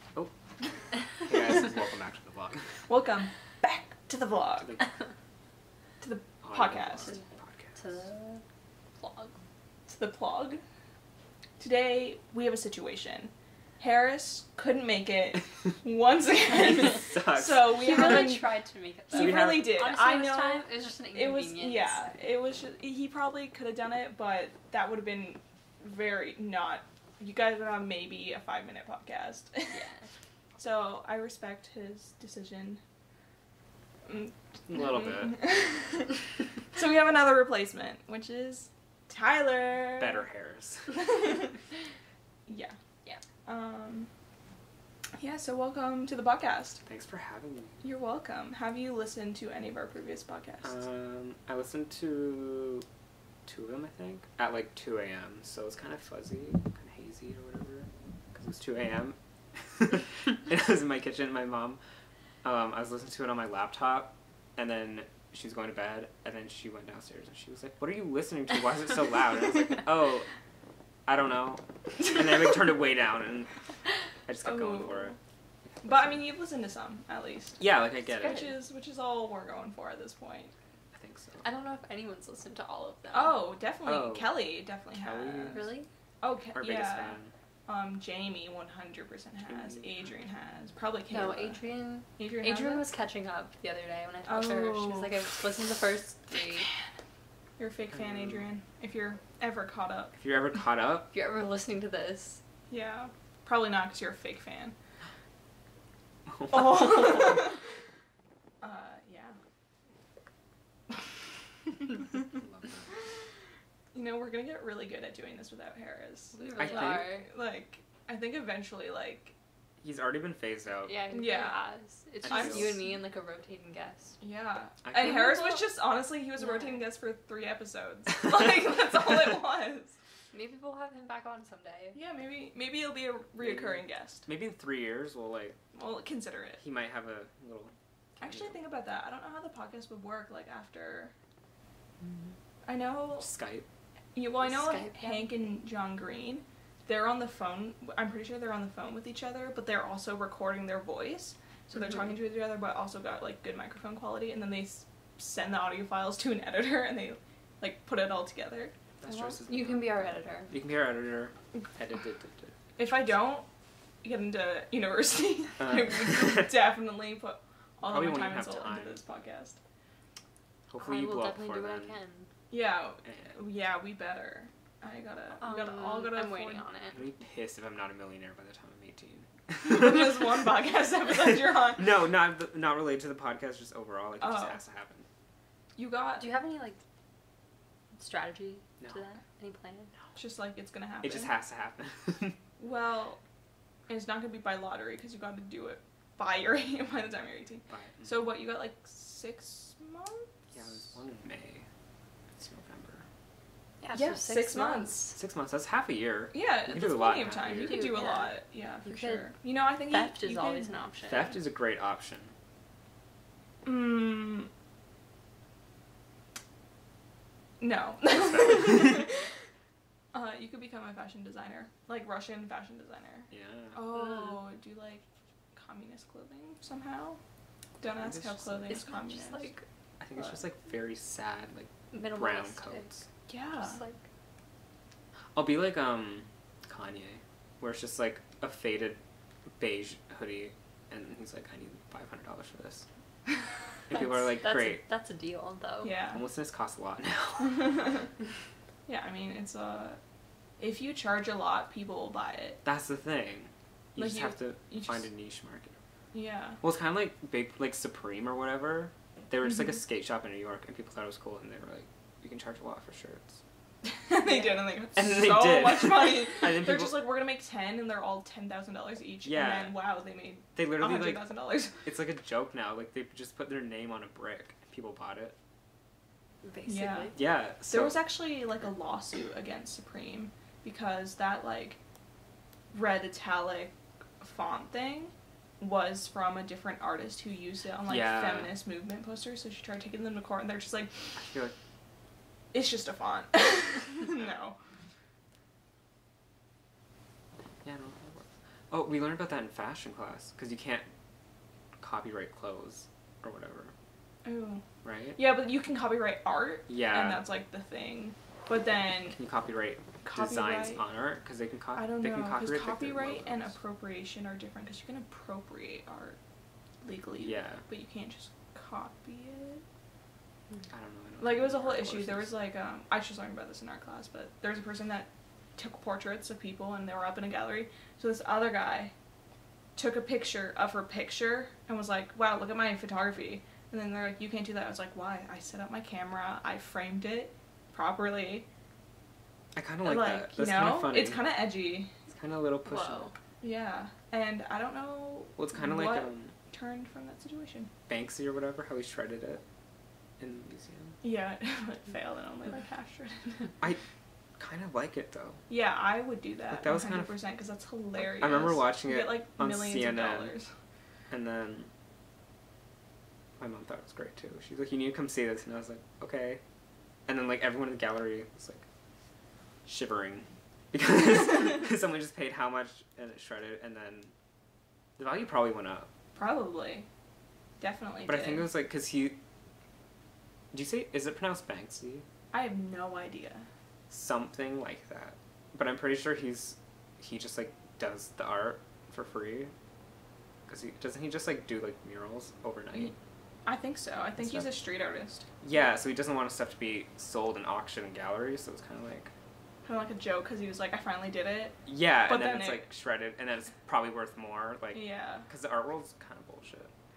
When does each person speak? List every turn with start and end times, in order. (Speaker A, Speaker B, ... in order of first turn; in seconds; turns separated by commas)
Speaker A: 1.0-2.9, Speaker B: 2.9-4.8, Speaker A: 4.6-4.8, Speaker B: 6.0-7.2, Speaker A: 6.4-8.0, Speaker C: 7.0-8.4, Speaker B: 9.0-9.3, Speaker B: 9.9-10.6, Speaker B: 11.6-18.5, Speaker A: 16.6-18.3, Speaker C: 17.7-22.1, Speaker B: 19.1-29.8, Speaker A: 19.1-19.8, Speaker C: 29.7-30.1, Speaker B: 30.6-32.8, Speaker B: 34.0-40.2, Speaker A: 34.7-35.4, Speaker A: 40.0-41.1, Speaker B: 40.9-41.6, Speaker B: 42.5-44.1, Speaker B: 45.2-46.8, Speaker A: 46.8-47.8, Speaker B: 47.8-50.8, Speaker A: 50.6-52.9, Speaker A: 53.5-61.8, Speaker A: 62.4-70.3, Speaker A: 71.1-73.5, Speaker A: 74.2-75.2, Speaker B: 74.4-75.2, Speaker A: 75.8-76.1, Speaker B: 75.8-80.5, Speaker A: 77.6-78.4, Speaker C: 78.2-78.5, Speaker A: 80.9-81.4, Speaker C: 81.4-83.4, Speaker B: 83.1-85.7, Speaker A: 83.8-84.3, Speaker A: 84.9-85.6, Speaker C: 85.5-85.9, Speaker B: 86.2-91.6, Speaker A: 86.5-87.3, Speaker C: 91.1-96.7, Speaker B: 92.2-92.8, Speaker B: 94.2-95.4, Speaker B: 96.3-96.8, Speaker B: 97.6-100.1, Speaker A: 97.9-98.4, Speaker A: 100.1-101.1, Speaker C: 101.1-102.4, Speaker B: 102.7-104.7, Speaker A: 106.3-107.5, Speaker B: 106.5-107.6, Speaker B: 108.6-109.4, Speaker A: 112.2-112.9, Speaker B: 113.9-119.3, Speaker C: 116.3-117.3, Speaker A: 116.6-117.1, Speaker A: 119.8-121.0, Speaker C: 120.8-124.2, Speaker B: 121.1-121.6, Speaker A: 122.2-122.8, Speaker B: 122.2-122.9, Speaker B: 124.2-129.9, Speaker A: 124.8-125.4, Speaker C: 125.0-125.6, Speaker C: 126.4-126.8, Speaker C: 130.3-132.0, Speaker B: 131.9-134.2, Speaker A: 133.4-135.6, Speaker B: 135.7-136.6, Speaker A: 136.6-138.6, Speaker B: 138.2-141.1, Speaker A: 142.0-142.3, Speaker B: 142.6-143.3, Speaker A: 143.2-143.7, Speaker B: 144.1-158.7, Speaker C: 144.4-145.3, Speaker A: 159.0-162.5, Speaker C: 159.0-160.5, Speaker B: 162.8-163.4, Speaker B: 164.0-169.6, Speaker A: 165.6-166.5, Speaker A: 167.8-169.0, Speaker A: 170.7-171.9, Speaker C: 170.8-172.3, Speaker B: 172.5-176.6, Speaker C: 175.4-177.0, Speaker A: 176.9-180.5, Speaker B: 179.6-181.9, Speaker A: 181.1-185.1, Speaker B: 184.2-184.6, Speaker B: 185.8-186.3, Speaker C: 186.2-186.8, Speaker C: 187.9-189.9, Speaker A: 188.8-189.1, Speaker B: 190.1-191.3, Speaker A: 191.0-192.4, Speaker B: 192.6-193.2, Speaker B: 193.9-200.8, Speaker A: 197.7-198.3, Speaker A: 200.5-201.7, Speaker A: 202.3-203.1, Speaker C: 203.8-205.1, Speaker B: 203.9-205.1, Speaker A: 205.2-207.9, Speaker B: 206.3-210.9, Speaker C: 207.4-211.4, Speaker A: 211.1-212.3, Speaker B: 213.6-214.5, Speaker B: 217.6-219.3, Speaker A: 218.1-219.1, Speaker B: 220.1-227.2, Speaker A: 223.3-223.8, Speaker C: 223.9-224.4, Speaker B: 227.8-229.5, Speaker A: 227.8-228.8, Speaker C: 228.7-229.6, Speaker A: 230.0-233.1, Speaker C: 231.9-233.0, Speaker B: 233.3-233.8, Speaker C: 233.6-234.0, Speaker A: 235.3-239.0, Speaker A: 239.6-242.9, Speaker A: 243.9-244.8, Speaker C: 243.9-246.0, Speaker B: 245.8-246.2, Speaker A: 246.1-247.7, Speaker B: 247.4-248.1, Speaker B: 248.8-250.0, Speaker B: 250.6-252.6, Speaker A: 252.6-255.8, Speaker B: 253.9-255.1, Speaker B: 256.1-256.6, Speaker A: 256.6-263.4, Speaker B: 263.8-271.8, Speaker A: 264.9-267.0, Speaker A: 269.2-269.8, Speaker A: 270.5-271.2, Speaker A: 271.8-275.4, Speaker C: 276.4-277.1, Speaker B: 276.6-277.1, Speaker A: 277.1-278.0, Speaker B: 277.7-281.8, Speaker B: 282.7-291.2, Speaker A: 287.9-288.6, Speaker A: 291.1-291.6, Speaker B: 292.5-294.6, Speaker A: 297.6-300.9, Speaker A: 301.8-303.7, Speaker B: 304.2-304.6, Speaker A: 304.8-305.2, Speaker B: 305.1-309.2, Speaker A: 306.7-307.2, Speaker A: 309.1-313.5, Speaker B: 310.0-310.8, Speaker B: 311.7-316.2, Speaker B: 316.8-319.6, Speaker A: 317.2-317.6, Speaker A: 320.7-322.3, Speaker B: 321.2-328.9, Speaker B: 329.8-338.4, Speaker A: 339.5-341.2, Speaker B: 339.8-341.9, Speaker A: 342.1-343.1, Speaker B: 342.6-347.7, Speaker A: 345.4-346.3, Speaker A: 347.9-349.4, Speaker A: 350.2-351.0, Speaker B: 351.0-353.5, Speaker A: 354.4-355.4, Speaker B: 355.5-360.5, Speaker A: 356.5-357.1, Speaker A: 358.0-360.3, Speaker A: 361.1-361.7, Speaker A: 363.4-366.4, Speaker A: 367.1-368.6, Speaker A: 369.7-374.1, Speaker A: 375.0-375.9, Speaker B: 376.1-376.9, Speaker B: 377.6-378.5, Speaker A: 378.1-379.2, Speaker A: 380.5-382.0, Speaker B: 382.3-383.5, Speaker A: 383.9-389.5, Speaker A: 390.5-392.9, Speaker B: 393.4-395.3, Speaker A: 394.2-394.5, Speaker A: 395.4-399.1, Speaker B: 399.6-402.7, Speaker A: 401.6-406.7, Speaker B: 404.7-405.3